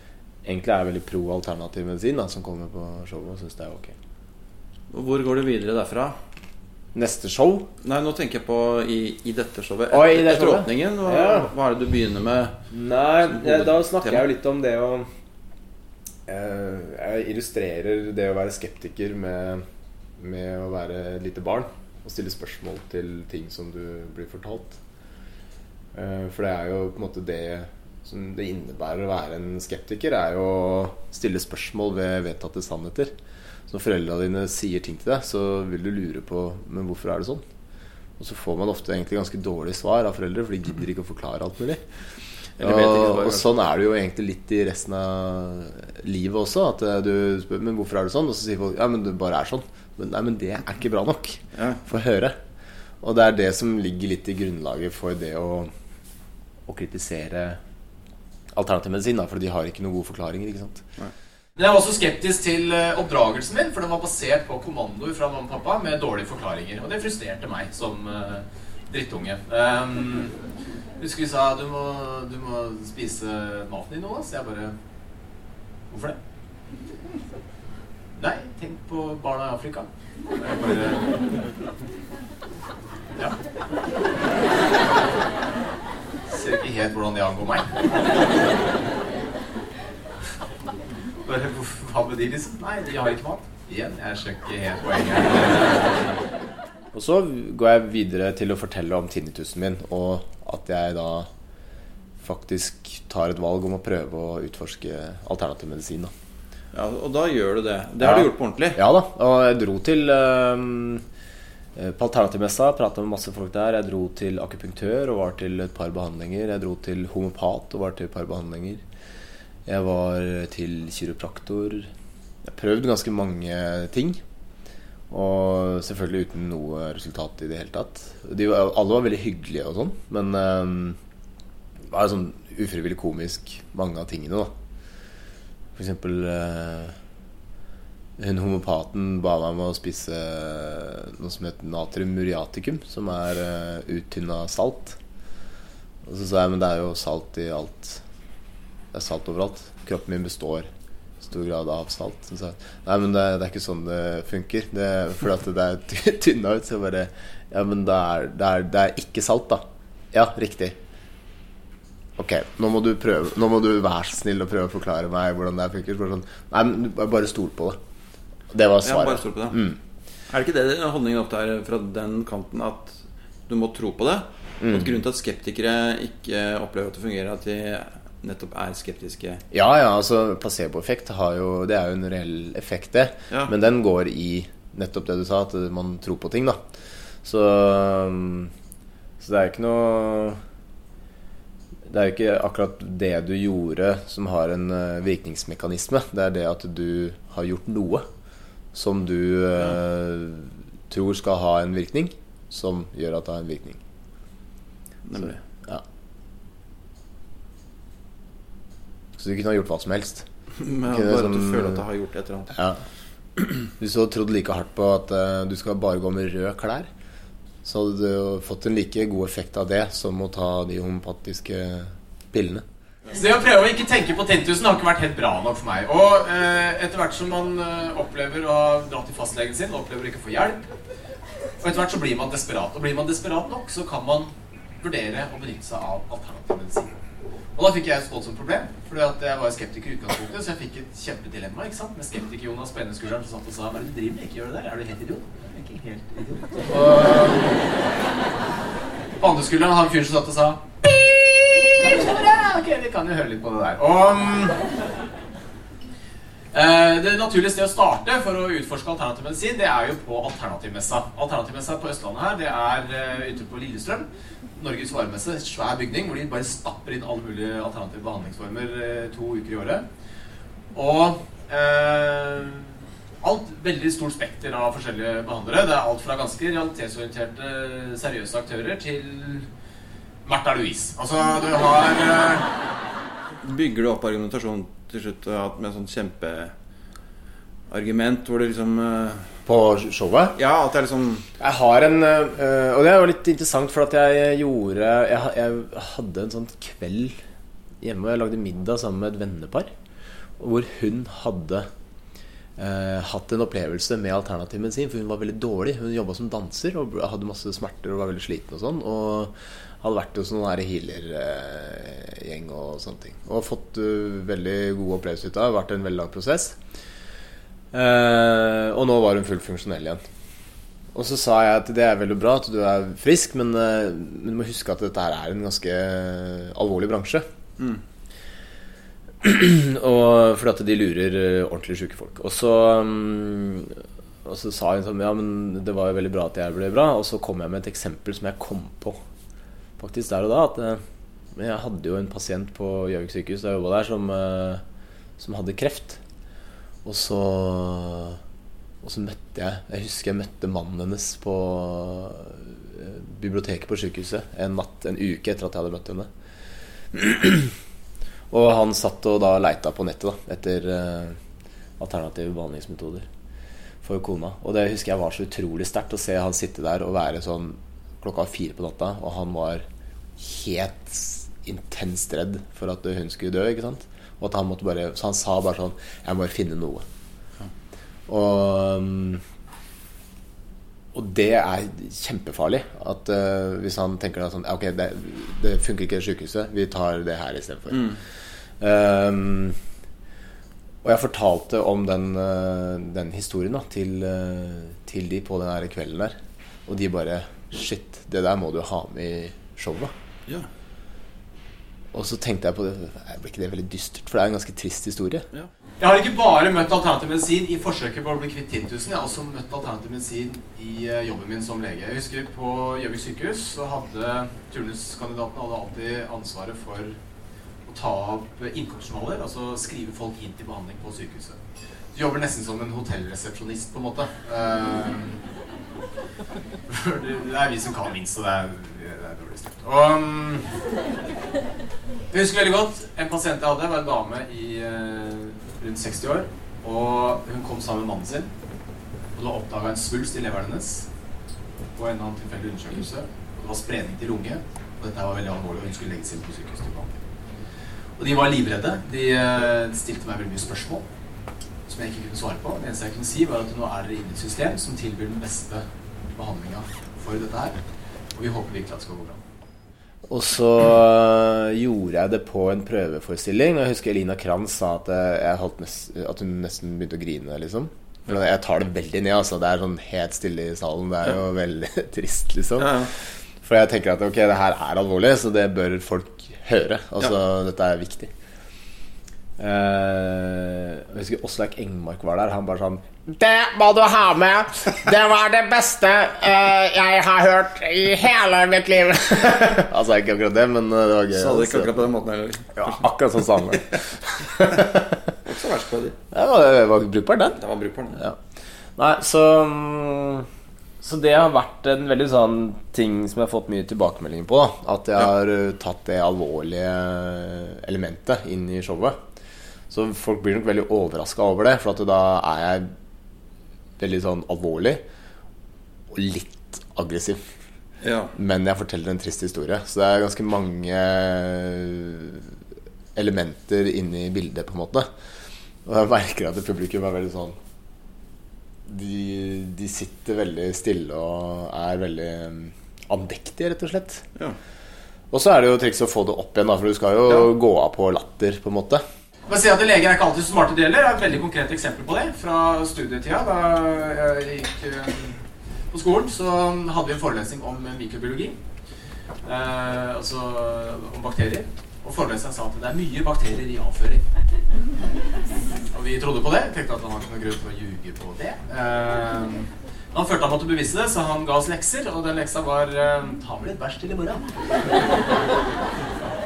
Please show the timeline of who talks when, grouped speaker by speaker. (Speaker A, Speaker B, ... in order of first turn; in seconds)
Speaker A: 0.5-4.0, 6.9-7.7, 9.9-11.5, 12.7-15.1, 16.3-19.6, 20.2-24.8, 25.9-33.1, 33.7-37.4, 38.2-41.8, 42.6-52.4, 53.0-55.7, 56.7-57.6, 58.5-60.8, 96.9-101.3, 102.2-106.1, 108.0-111.0, 111.8-118.8, 119.7-121.9, 122.5-124.2, 125.1-131.0, 131.9-134.5, 135.8-137.0, 138.2-145.0, 146.0-148.0, 148.9-150.7, 151.2-160.8, 162.2-167.8, 168.5-169.8, 174.6-175.0, 179.5-186.6, 187.2-188.5, 189.2-190.4, 191.9-198.1, 198.7-203.8, 205.2-205.8, 209.2-210.3, 210.9-211.8, 212.5-212.8, 213.4-216.9, 217.6-222.7, 289.5-290.4, 291.4-297.2, 297.8-299.7, 300.4-301.7, 302.6-316.6, 317.7-320.0, 320.9-327.2, 329.2-339.0, 339.8-340.8, 341.3-344.6, 345.2-346.0, 346.9-348.2, 348.8-356.1, 356.9-357.5, 358.3-361.2, 361.8-363.1, 363.8-369.6, 370.2-376.8, 378.1-379.2, 380.9-387.9, 388.6-389.6, 390.8-399.9, 401.9-405.3, 460.1-472.9, 473.4-478.1, 479.4-491.8, 492.6-495.0, 496.1-497.4, 497.9-498.2, 498.8-500.3, 500.8-509.0, 509.7-512.7, 513.8-514.8, 515.9-517.2, 518.1-522.4, 523.0-524.9, 525.6-527.4, 528.6-534.0, 535.1-538.8
Speaker B: 4.9-6.2, 7.8-12.6, 13.3-14.2, 42.6-43.5, 106.7-108.8, 168.8-169.6, 170.3-179.4, 205.1-205.4, 210.6-212.6, 283.4-286.5, 287.7-289.3, 290.4-291.3, 387.7-388.0, 472.6-472.9, 491.1-492.7, 495.2-496.0, 497.4-498.0, 517.8-518.1
Speaker C: 61.6-70.3, 71.0-74.8, 75.9-76.2, 78.2-81.1, 86.3-87.8, 91.2-96.1, 223.1-230.7, 231.6-236.9, 237.6-247.6, 249.2-250.7, 251.6-254.6, 256.5-269.9, 270.7-279.5, 280.2-282.5, 405.8-417.0, 417.7-421.4, 421.9-425.2, 426.7-430.5, 432.1-438.3, 439.1-440.9, 441.8-447.0, 448.0-450.9, 451.7-457.6, 458.1-459.2, 539.3-548.4, 549.2-554.1, 555.7-564.8